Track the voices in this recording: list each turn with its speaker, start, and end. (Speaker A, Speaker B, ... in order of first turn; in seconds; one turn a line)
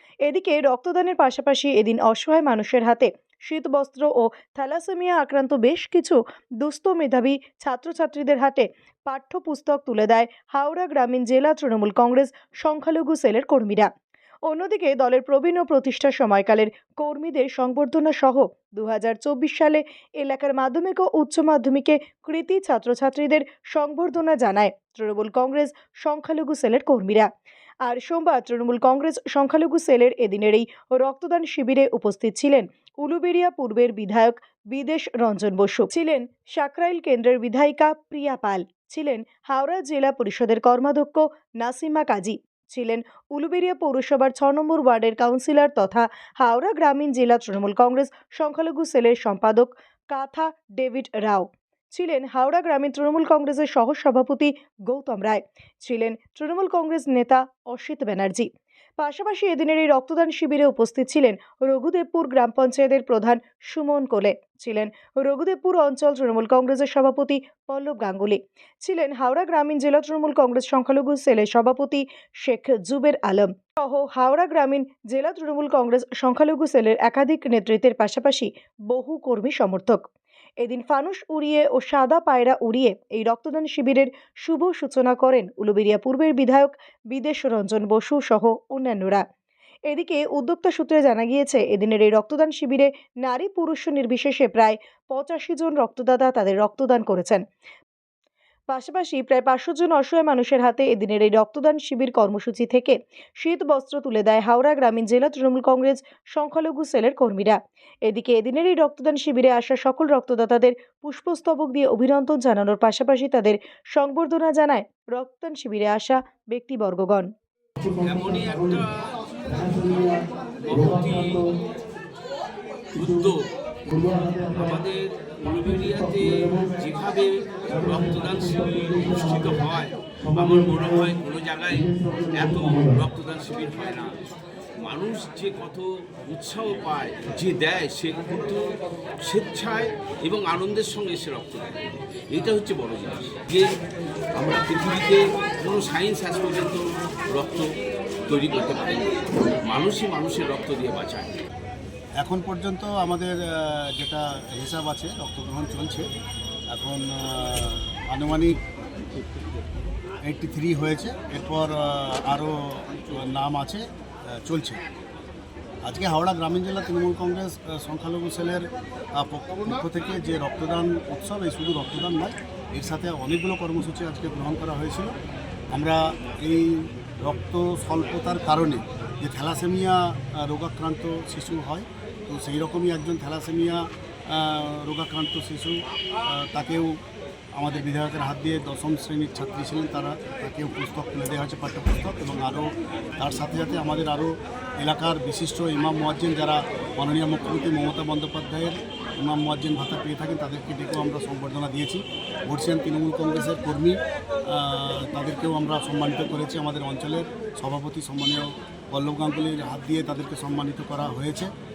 Speaker A: 0.2-13.9
Speaker A: 14.5-27.3
Speaker A: 27.8-58.5
Speaker A: 59.0-80.0
Speaker A: 80.6-89.2
Speaker A: 89.9-97.4
Speaker A: 98.7-117.3
Speaker B: 118.0-118.9
Speaker C: 119.6-120.1
Speaker B: 120.6-121.4
Speaker B: 123.0-123.5
Speaker C: 123.9-124.5
Speaker B: 124.5-134.2
Speaker C: 127.8-129.5
Speaker C: 130.3-131.1
Speaker C: 131.8-133.0
Speaker B: 134.8-143.7
Speaker B: 144.3-147.7
Speaker B: 148.3-151.4
Speaker C: 152.2-156.1
Speaker C: 156.7-158.6
Speaker C: 160.3-163.8
Speaker C: 164.4-164.8
Speaker C: 165.8-168.6
Speaker C: 169.2-175.1
Speaker C: 175.7-185.7
Speaker C: 186.3-186.9
Speaker C: 187.6-192.7
Speaker C: 193.2-204.0
Speaker C: 204.5-211.5